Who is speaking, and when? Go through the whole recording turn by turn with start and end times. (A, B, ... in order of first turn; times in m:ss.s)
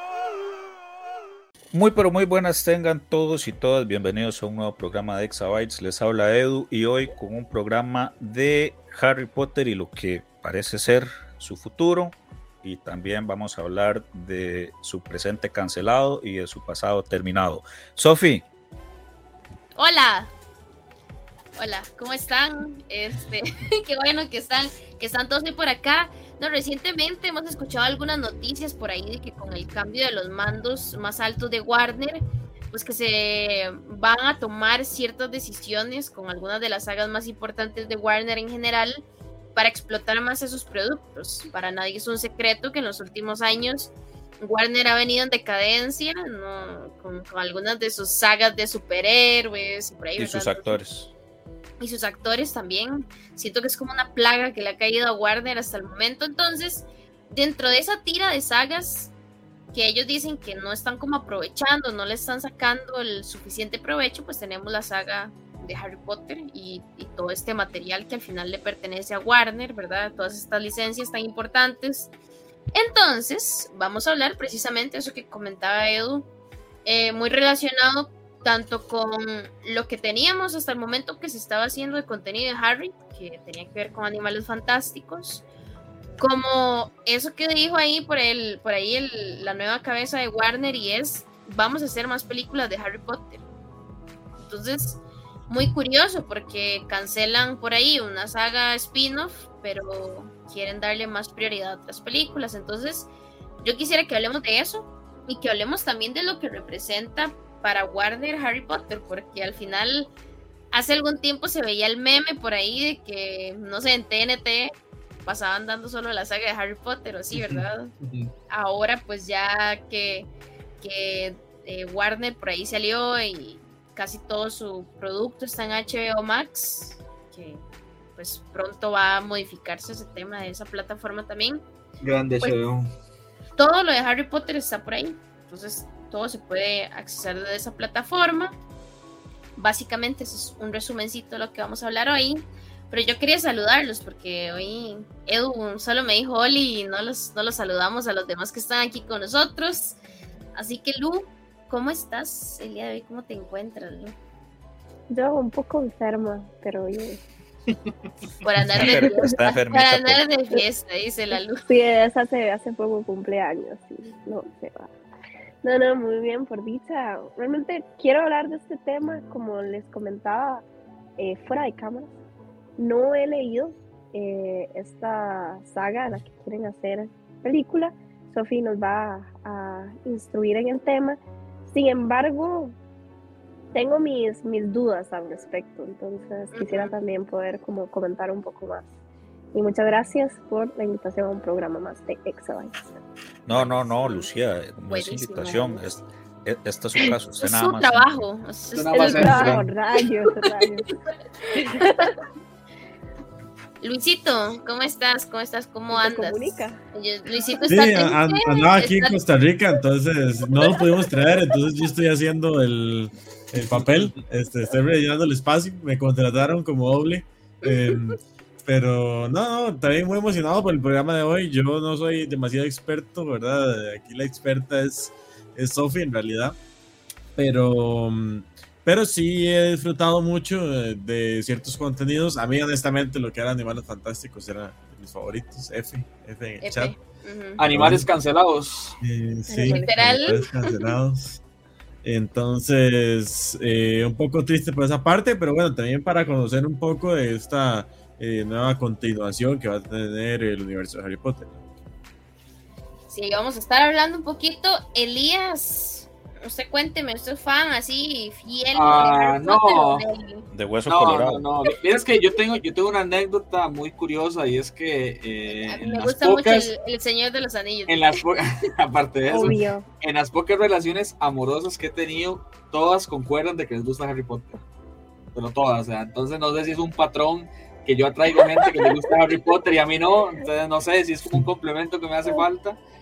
0:01.7-0:18.4 A
0:19.8-0:20.3 B
0:21.6-0:39.0 B
0:39.6-0:50.8 B
0:50.2-0:51.1 A
0:51.8-0:59.1 B
0:59.7-1:12.1 B
1:12.7-1:16.3 B
1:16.8-1:25.4 B
1:26.2-1:33.4 B
1:34.5-1:43.1 B
1:43.6-1:50.1 B
1:50.7-1:54.7 B
1:55.3-1:57.9 B
1:57.3-1:58.3 C
1:58.5-2:00.3 B
2:00.8-2:07.6 B
2:08.2-2:11.6 B
2:12.0-2:12.9 C
2:13.6-2:18.6 B
2:19.6-2:30.0 B
2:30.6-2:34.2 B
2:35.1-2:37.2 D
2:38.4-2:41.6 B
2:38.7-2:40.3 A
2:38.8-2:39.1 D
2:41.3-2:44.9 D
2:45.6-2:50.6 D
2:51.2-2:52.1 D
2:52.8-3:02.8 D
3:03.7-3:08.9 D
3:06.5-3:07.0 B
3:09.5-3:13.0 D
3:13.5-3:18.2 A
3:13.5-3:14.3 B
3:14.9-3:16.0 B
3:17.0-3:19.6 B
3:18.7-3:19.7 C
3:18.9-3:20.9 D
3:21.5-3:22.1 B
3:21.6-3:22.1 D
3:23.8-3:29.2 B
3:25.9-3:26.8 D
3:27.4-3:27.6 D
3:27.7-3:46.6 E
3:33.7-3:34.2 C
3:47.4-3:56.9 E
3:56.6-3:57.6 B
3:57.6-3:59.0 C
3:57.7-3:58.1 E
3:59.0-4:01.4 E
3:59.5-4:00.4 D
3:59.8-4:00.9 B
4:02.0-4:11.6 E
4:13.1-4:20.4 B
4:18.8-4:20.0 C
4:20.5-4:21.5 A
4:20.9-4:26.7 C
4:25.7-4:28.2 B
4:27.9-4:34.6 C
4:29.3-4:29.8 D
4:35.4-4:42.8 C